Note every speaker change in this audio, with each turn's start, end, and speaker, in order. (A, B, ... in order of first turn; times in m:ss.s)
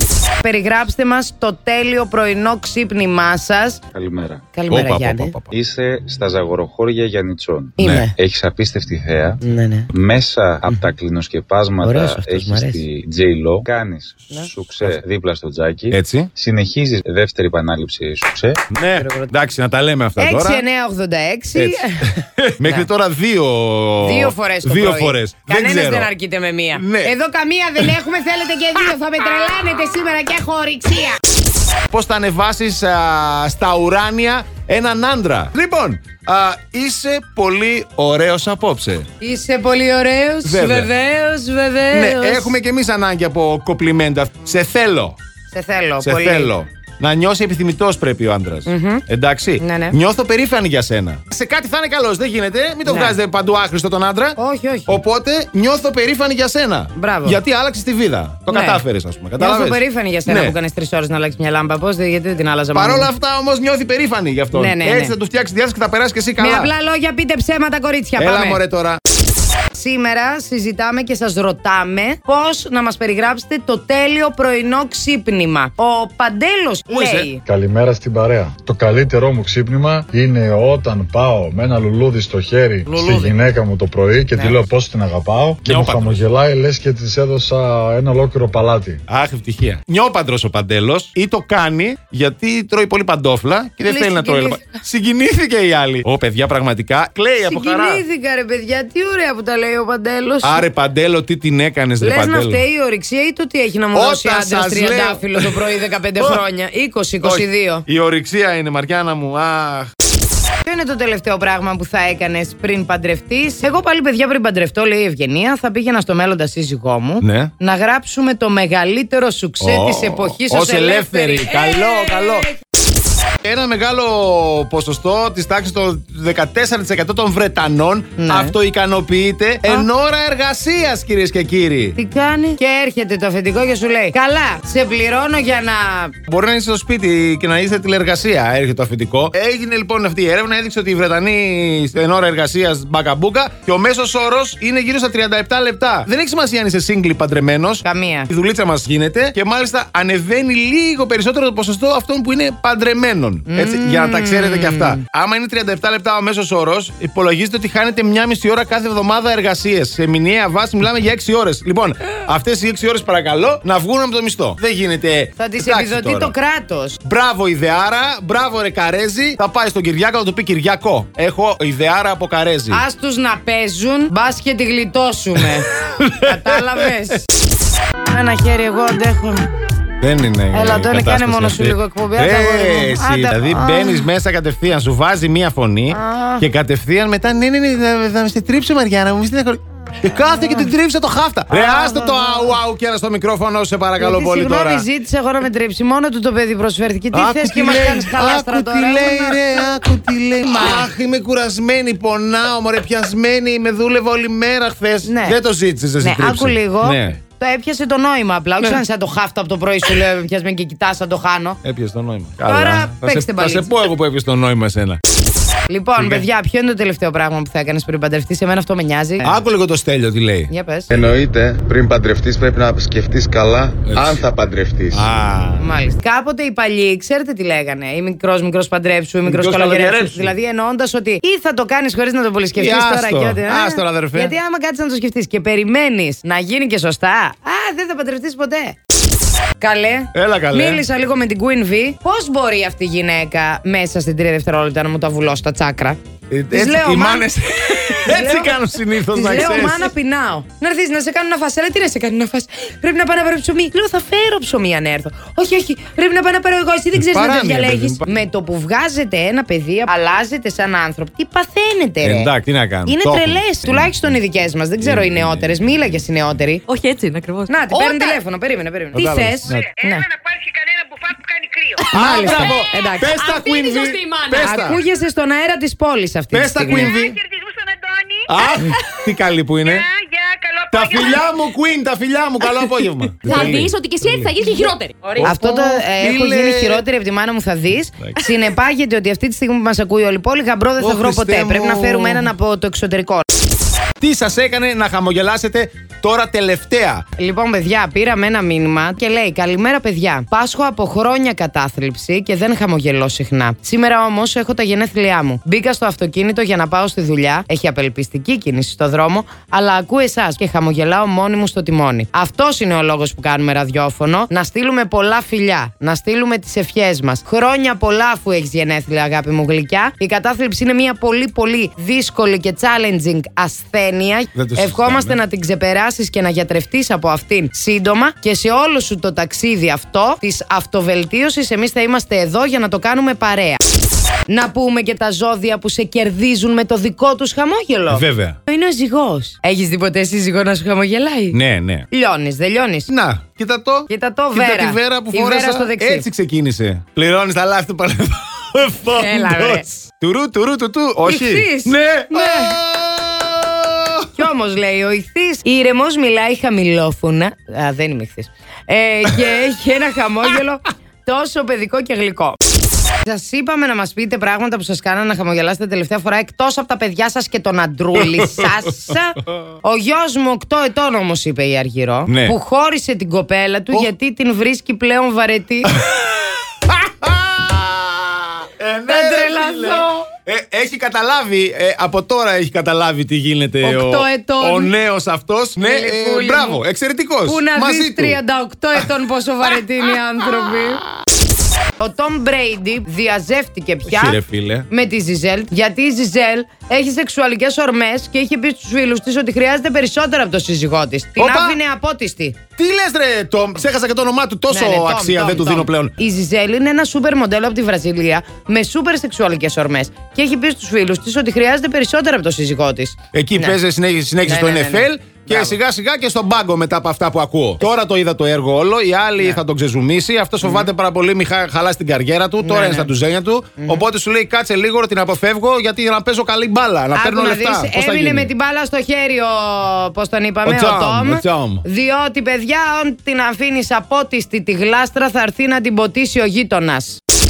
0:00.4-0:03.8 A
0:03.9-0:04.4 B
0:04.5-0:05.3 A
0:04.7-0:05.5 C
0:05.5-0:18.6 B
0:07.8-0:08.1 A
0:07.8-0:08.0 C
0:09.4-0:09.9 A
0:10.7-0:10.9 A
0:11.8-0:12.8 A
0:15.9-0:16.3 C
0:18.7-0:20.6 C
0:19.0-0:19.3 A
0:20.2-0:22.1 A
0:21.6-0:26.1 C
0:24.0-0:31.2 A
0:26.7-0:27.1 C
0:31.9-0:39.1 C
0:39.2-0:42.5 A
0:40.4-0:40.9 C
0:41.9-0:45.2 C
0:45.5-0:46.5 A
0:46.0-0:54.4 C
0:48.6-0:49.0 A
0:49.6-0:50.0 A
0:52.8-0:53.2 A
0:54.4-0:55.0 A
0:54.9-1:00.6 C
0:56.9-0:57.4 A
0:58.5-0:58.8 A
0:59.4-1:03.1 A
1:02.7-1:06.7 C
1:04.5-1:05.1 A
1:06.4-1:08.6 A
1:08.2-1:09.0 C
1:09.7-1:17.4 A
1:16.9-1:17.3 C
1:17.4-1:29.0 D
1:22.9-1:23.3 C
1:24.3-1:24.6 A
1:25.6-1:26.2 C
1:29.1-1:38.0 C
1:33.8-1:34.8 A
1:37.4-1:40.6 A
1:40.4-1:42.6 C
1:42.0-1:47.8 A
1:43.9-1:46.4 C
1:47.2-1:49.9 C
1:50.6-2:02.4 A
1:57.2-1:57.5 C
1:59.6-2:02.5 C
2:03.4-2:12.0 C
2:08.2-2:08.5 A
2:12.0-2:16.1 A
2:16.3-2:46.3 C
2:27.8-2:28.3 A
2:33.5-2:35.0 A
2:45.4-2:47.0 A
2:47.0-2:52.8 C
2:52.7-2:55.7 A
2:55.4-2:56.9 C
2:56.2-2:57.2 A
2:58.1-2:59.5 A
3:00.0-3:14.8 C
3:00.5-3:04.1 A
3:05.9-3:06.4 A
3:11.5-3:12.6 A
3:14.0-3:19.5 A
3:17.1-3:27.2 C
3:25.0-3:25.4 A
3:26.0-3:31.6 A
3:31.6-3:35.0 C
3:32.4-3:33.7 A
3:35.7-3:39.3 A
3:36.0-3:36.2 C
3:39.2-3:40.5 C
3:40.5-3:40.9 A
3:40.9-3:45.0 E
3:43.8-3:44.3 C
3:44.9-3:45.7 C
3:45.6-3:58.8 A
3:49.2-3:50.3 C
3:52.6-3:54.3 C
3:59.6-4:06.0 A
4:00.1-4:00.8 C
4:06.3-4:09.9 C
4:06.5-4:22.3 A
4:17.0-4:18.0 C
4:22.0-4:23.9 C
4:22.8-4:26.6 A
4:24.8-4:25.6 C
4:26.7-4:28.2 F
4:27.5-4:30.1 A
4:28.9-4:29.8 C
4:30.1-4:31.7 G
4:31.8-4:33.2 A
4:31.9-4:32.5 F
4:31.9-4:34.8 C
4:33.1-4:34.6 F
4:34.4-4:36.9 A
4:36.3-4:37.2 C
4:37.2-4:38.2 G
4:38.3-4:39.9 C
4:40.0-4:40.7 G
4:40.7-4:46.8 C
4:43.2-4:45.3 F
4:45.2-4:53.2 A
4:50.8-4:52.3 C
4:54.0-4:57.0 C
4:57.2-5:33.6 A
5:24.3-5:25.2 C
5:34.3-5:41.4 A
5:37.9-5:38.4 C
5:41.3-5:41.9 C
5:41.9-5:42.9 A
5:42.9-5:54.1 C
5:43.9-5:46.0 A
5:48.9-5:49.7 A
5:51.0-5:52.6 A
5:54.2-6:02.4 A
6:03.0-6:15.7 A
6:08.0-6:08.5 C
6:12.1-6:12.3 C
6:15.7-6:16.0 C
6:16.7-6:28.2 C
6:18.9-6:20.0 A
6:23.6-6:24.7 A
6:25.6-6:26.6 A
6:27.2-6:30.8 A
6:31.8-6:34.2 A
6:33.9-6:34.7 C
6:34.7-6:42.4 A
6:41.2-6:41.6 C
6:42.6-6:46.0 C
6:44.5-6:53.6 A
6:53.1-7:08.3 C
6:54.2-6:55.6 A
7:00.4-7:00.7 A
7:02.4-7:02.9 A
7:03.6-7:03.8 A
7:06.9-7:17.0 A
7:10.4-7:11.6 C